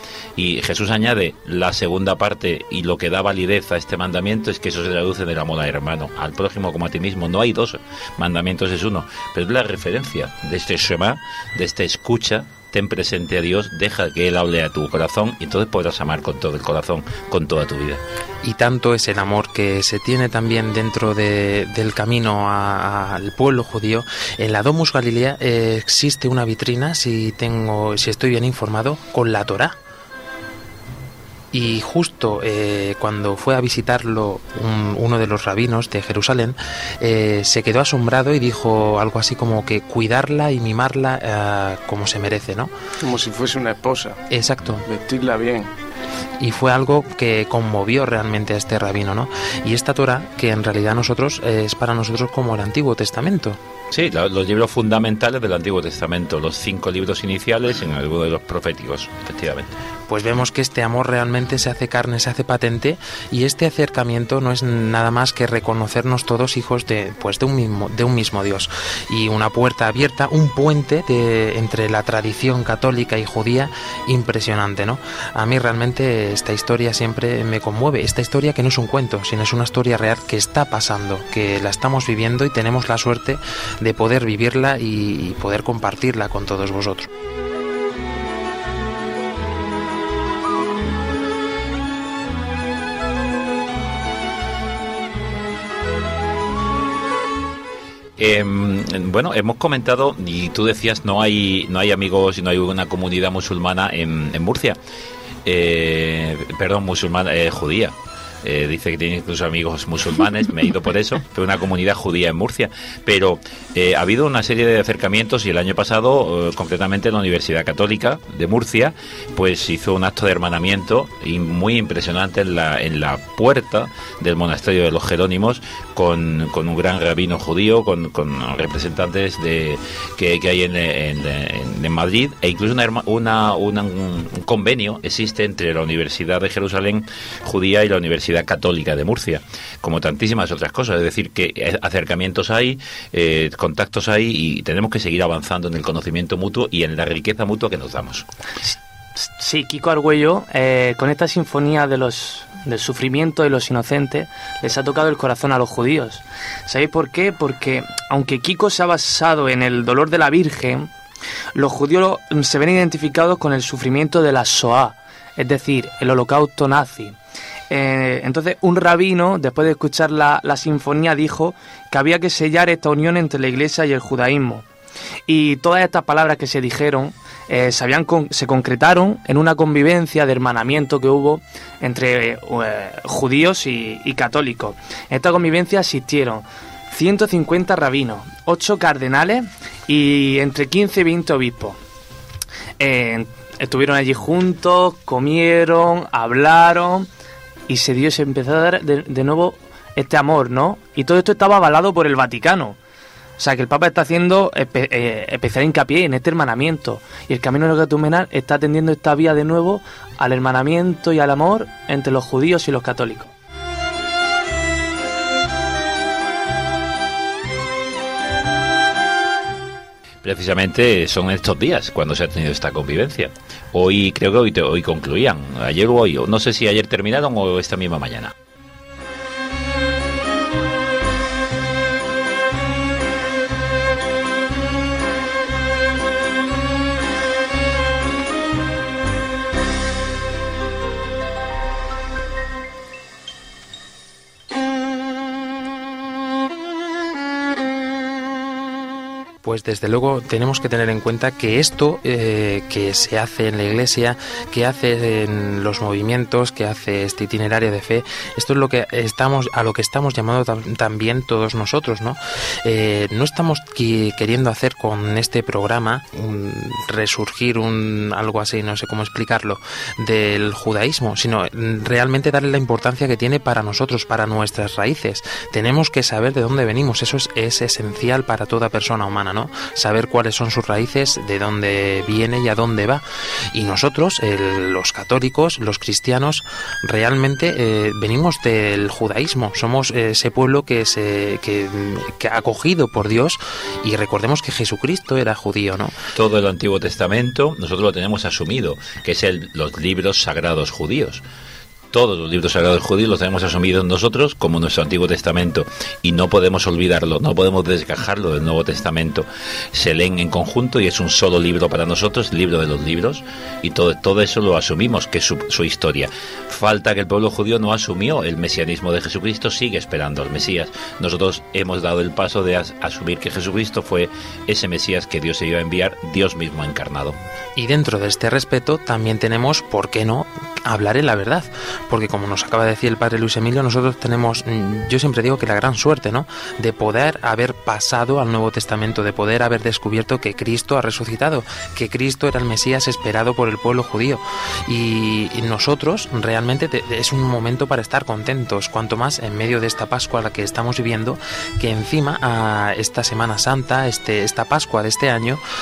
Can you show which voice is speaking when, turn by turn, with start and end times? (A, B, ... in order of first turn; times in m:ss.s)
0:00.4-0:18.0 A
0:18.4-0:29.8 B
0:31.5-0:42.7 B
0:43.0-0:44.2 C
0:44.3-0:44.9 B
0:44.9-0:45.7 C
0:46.4-0:53.6 B
0:53.9-0:59.7 A
1:00.1-1:27.1 B
1:38.2-1:44.8 A
1:45.4-2:28.2 A
2:29.2-2:40.9 D
2:41.6-2:47.2 D
2:47.7-2:54.6 D
2:55.3-3:11.8 D
3:12.8-3:17.1 D
3:17.7-3:22.8 D
3:23.4-3:33.3 D
3:40.2-3:48.3 A
4:09.4-4:56.0 B
4:56.1-5:01.2 A
5:01.9-5:27.2 A
5:27.6-5:55.4 B